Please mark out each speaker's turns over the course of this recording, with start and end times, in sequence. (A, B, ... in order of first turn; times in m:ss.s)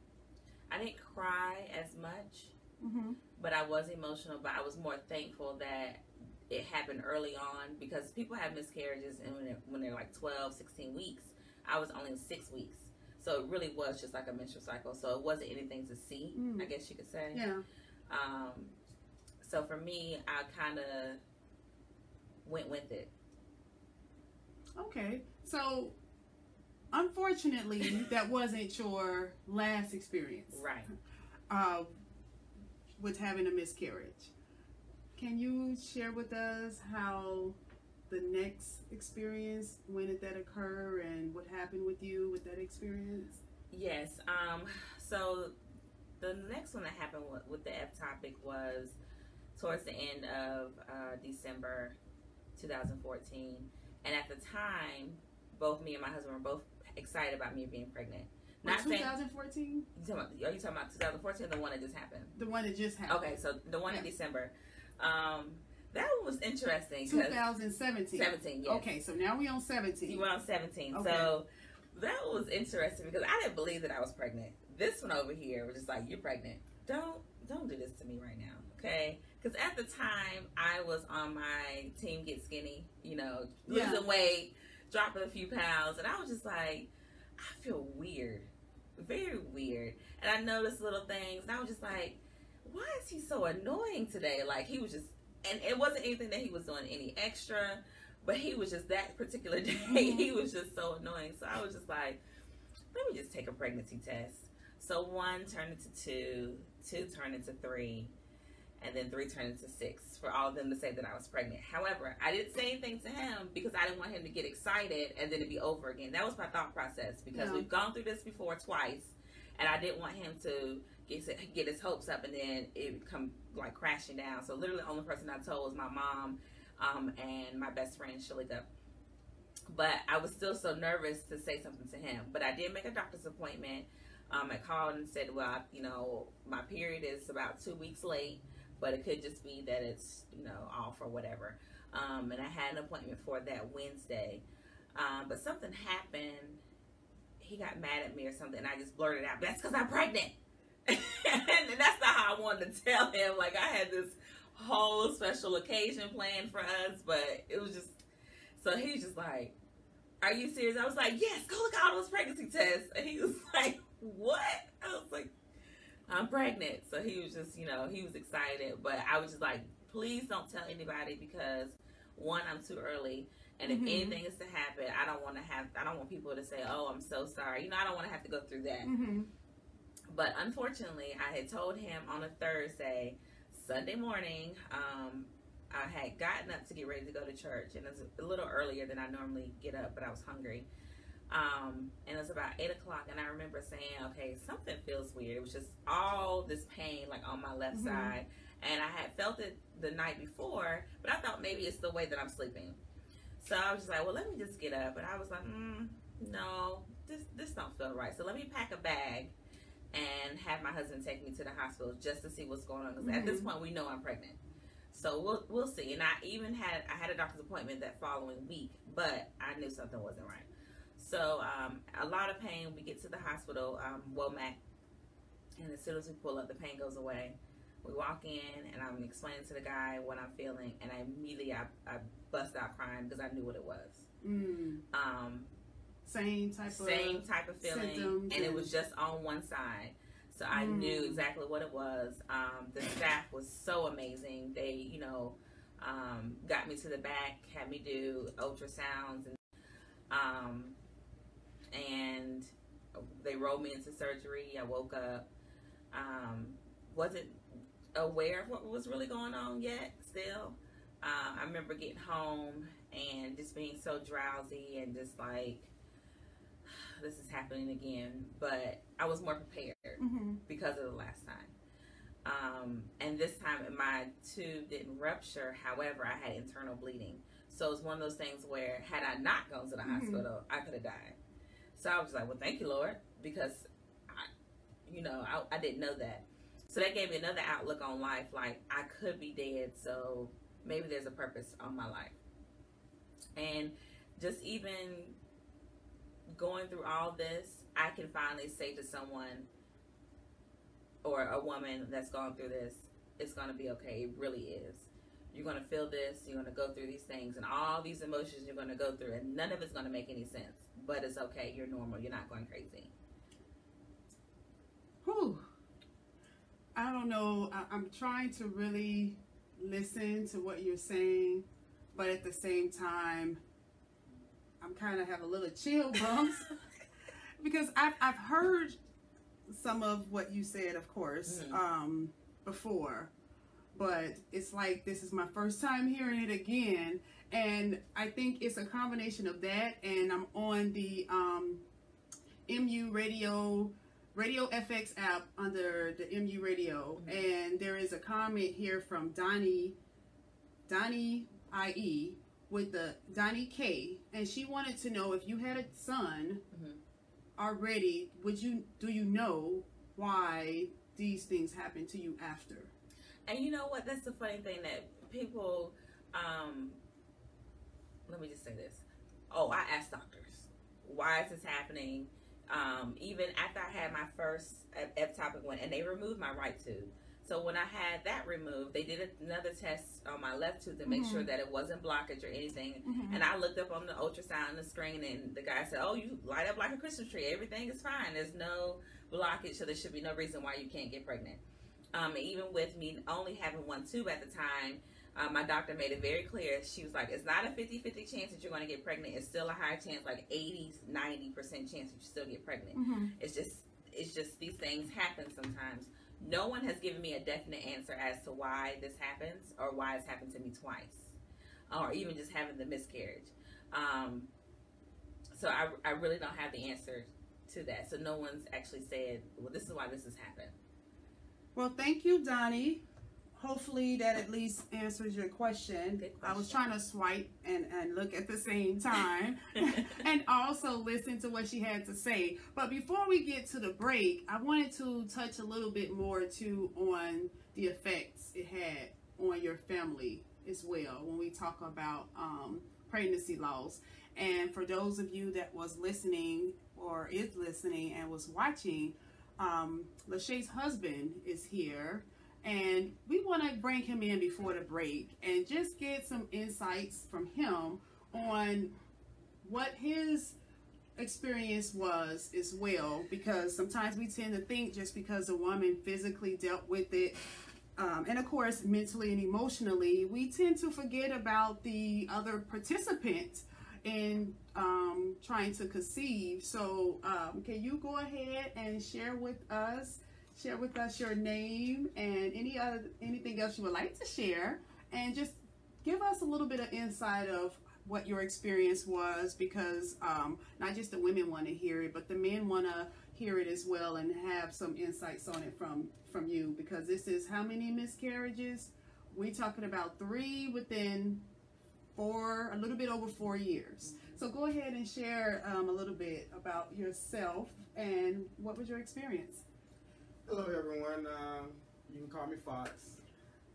0:00.7-0:02.6 A
0:02.8-0:03.2 B
0:03.4-0:17.4 A
0:16.4-0:16.7 B
0:17.3-0:17.6 B
0:18.1-0:18.7 A
0:19.4-0:21.2 A
0:22.4-0:23.1 A
0:24.8-0:26.0 B
0:26.9-0:30.6 B
0:30.5-0:30.9 A
0:31.5-0:31.9 B
0:33.0-0:34.3 B
0:35.2-0:37.6 B
0:38.1-0:43.4 B
0:43.7-0:45.6 A
0:46.2-0:49.0 A
0:49.6-0:52.0 A
0:52.6-0:59.2 A
0:58.6-0:59.9 B
1:00.0-1:02.3 A
1:02.4-1:03.3 B
1:03.1-1:07.4 A
1:07.1-1:10.2 B
1:08.1-1:08.9 A
1:10.1-1:42.2 A
1:10.9-1:11.3 B
1:23.7-1:24.0 B
1:39.8-1:40.3 B
1:42.9-1:48.1 A
1:48.8-2:08.7 A
1:57.3-1:57.7 B
2:09.7-2:24.4 A
2:25.0-2:26.6 A
2:27.4-2:30.4 A
2:30.9-2:38.0 A
2:38.6-2:39.6 A
2:40.2-2:45.3 A
2:46.1-2:58.9 A
2:53.6-2:54.2 B
2:58.8-2:59.3 B
3:00.1-3:10.7 A
3:11.3-3:22.8 A
3:17.7-3:18.2 B
3:23.4-3:29.3 A
3:29.9-3:34.4 A
3:33.0-3:33.5 B
3:34.9-3:44.6 A
3:45.6-3:54.1 A
3:54.2-3:54.8 B
3:54.9-3:55.5 A
3:56.1-3:58.7 B
3:56.7-4:09.4 A
4:00.5-4:01.2 B
4:10.1-4:10.8 A
4:11.7-4:15.3 A
4:15.9-4:25.7 A
4:26.6-4:31.5 A
4:30.0-4:30.4 B
4:32.2-4:41.2 A
4:39.8-4:40.3 B
4:41.8-4:44.3 A
4:44.9-4:52.2 A
4:53.4-4:55.2 A
4:56.3-4:59.5 A
5:01.0-5:12.9 A
5:15.0-5:15.4 B
5:16.8-5:23.4 B
5:24.6-5:26.5 B
5:27.4-5:28.8 B
5:29.5-5:33.1 B
5:31.3-5:31.6 A
5:33.7-5:41.7 B
5:42.5-5:49.8 B
5:47.0-5:47.3 A
5:50.7-5:56.4 B
5:56.5-5:56.8 A
5:57.4-6:02.7 B
6:03.3-6:06.8 A
6:08.1-6:31.4 A
6:20.9-6:21.3 B
6:22.8-6:23.2 B
6:31.9-6:51.2 A
6:42.7-6:43.1 B
6:51.7-6:54.3 A
6:55.4-7:00.6 A
7:01.6-7:02.8 B
7:03.4-7:38.8 B
7:06.0-7:06.7 A
7:39.4-7:40.4 B
7:41.0-7:47.2 B
7:47.8-8:21.3 B
8:22.0-8:29.4 B
8:23.8-8:24.2 A
8:30.3-8:33.0 C